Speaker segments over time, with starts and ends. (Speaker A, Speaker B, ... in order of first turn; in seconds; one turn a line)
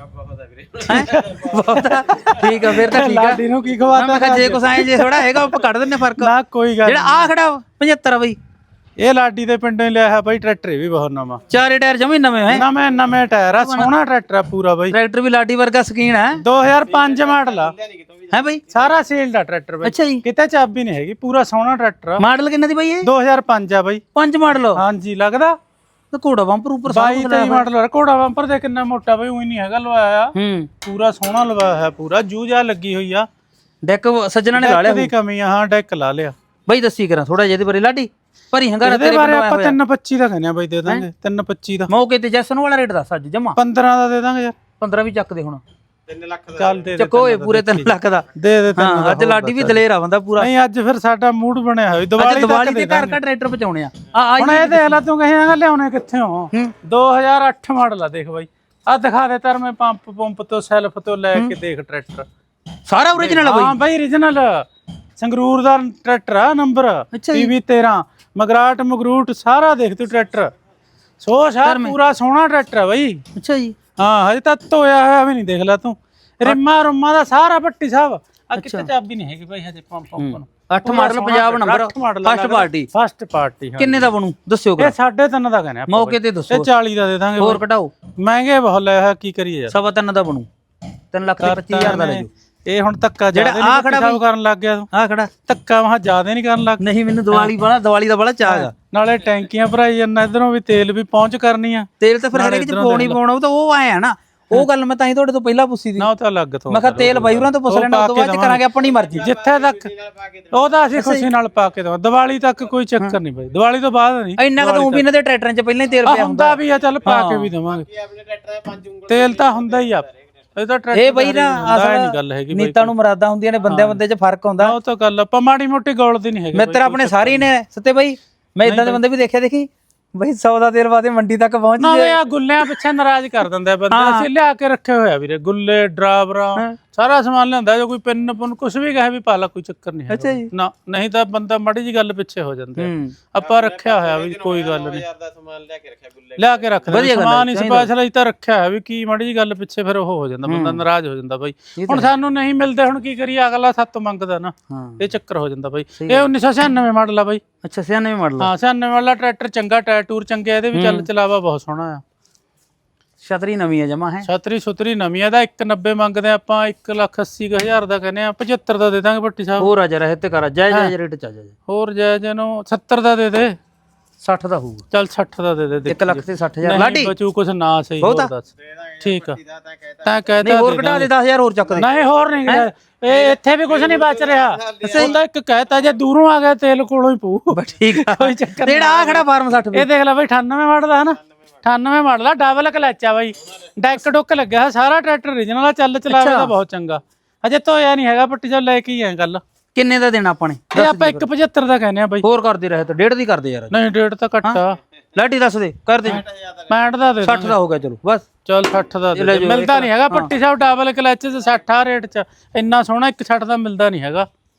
Speaker A: 0.2-1.3
Speaker B: 0.8-5.5
Speaker C: 0.8-3.4
Speaker C: 3.9-6.3
Speaker B: 6.2-7.3
Speaker C: 6.8-8.4
Speaker B: 9.0-11.4
Speaker C: 11.5-12.7
Speaker B: 12.5-14.9
Speaker C: 13.6-13.9
Speaker C: 14.9-16.4
Speaker B: 16.4-17.7
Speaker A: 16.9-18.9
Speaker C: 18.3-18.6
Speaker B: 18.7-22.2
Speaker C: 19.8-20.2
Speaker C: 22.2-23.1
Speaker B: 23.0-24.0
Speaker C: 24.1-24.8
Speaker B: 24.8-25.6
Speaker C: 26.1-27.6
Speaker B: 26.9-33.3
Speaker C: 30.3-30.7
Speaker C: 33.8-35.1
Speaker B: 34.5-36.3
Speaker C: 36.7-39.8
Speaker B: 38.8-41.9
Speaker C: 41.9-43.6
Speaker B: 43.6-44.6
Speaker C: 44.8-45.6
Speaker A: 46.1-46.9
Speaker B: 46.5-49.9
Speaker C: 47.0-50.5
Speaker B: 50.4-53.2
Speaker C: 52.2-55.0
Speaker B: 54.4-62.3
Speaker C: 62.9-63.8
Speaker B: 63.2-64.7
Speaker B: 65.2-70.5
Speaker C: 67.1-67.5
Speaker B: 71.2-73.2
Speaker C: 71.6-72.0
Speaker C: 73.3-73.8
Speaker B: 74.0-84.1
Speaker C: 78.6-78.9
Speaker C: 80.2-82.9
Speaker C: 83.8-84.9
Speaker B: 84.8-87.6
Speaker C: 85.9-86.7
Speaker C: 87.4-87.9
Speaker B: 88.2-89.7
Speaker C: 89.7-90.5
Speaker C: 91.1-92.3
Speaker B: 91.4-94.9
Speaker C: 93.3-94.2
Speaker C: 94.9-95.3
Speaker B: 95.5-97.5
Speaker C: 96.8-98.7
Speaker B: 98.5-103.2
Speaker C: 102.0-106.1
Speaker B: 106.0-109.9
Speaker C: 106.7-109.3
Speaker A: 108.8-110.8
Speaker B: 110.5-115.0
Speaker C: 111.0-111.3
Speaker C: 114.4-117.5
Speaker B: 116.0-117.9
Speaker A: 117.9-120.1
Speaker B: 119.1-122.9
Speaker C: 120.9-124.8
Speaker B: 123.7-124.0
Speaker B: 124.6-127.5
Speaker C: 126.5-132.2
Speaker B: 128.6-129.0
Speaker B: 131.8-145.1
Speaker C: 133.9-134.3
Speaker C: 140.1-140.5
Speaker C: 142.8-143.2
Speaker A: 143.4-146.8
Speaker B: 146.4-157.4
Speaker C: 146.9-147.9
Speaker C: 150.5-150.8
Speaker C: 151.8-152.1
Speaker C: 154.7-155.0
Speaker C: 156.0-156.3
Speaker C: 157.6-158.5
Speaker B: 158.4-162.0
Speaker C: 160.7-161.1
Speaker C: 163.2-164.3
Speaker B: 164.2-169.7
Speaker C: 169.6-171.6
Speaker B: 171.7-173.6
Speaker C: 174.2-174.8
Speaker B: 174.9-178.5
Speaker C: 175.9-177.1
Speaker C: 178.0-178.3
Speaker A: 179.0-180.3
Speaker B: 179.0-179.4
Speaker B: 180.0-181.1
Speaker C: 180.4-181.9
Speaker B: 181.8-199.4
Speaker A: 183.8-185.1
Speaker C: 184.8-185.1
Speaker C: 187.5-189.9
Speaker C: 196.1-196.5
Speaker C: 199.7-201.3
Speaker B: 200.8-202.2
Speaker C: 202.2-203.8
Speaker B: 203.7-204.8
Speaker C: 205.2-206.2
Speaker B: 206.1-207.6
Speaker A: 206.4-206.7
Speaker C: 207.2-208.3
Speaker B: 208.5-214.3
Speaker C: 209.1-210.3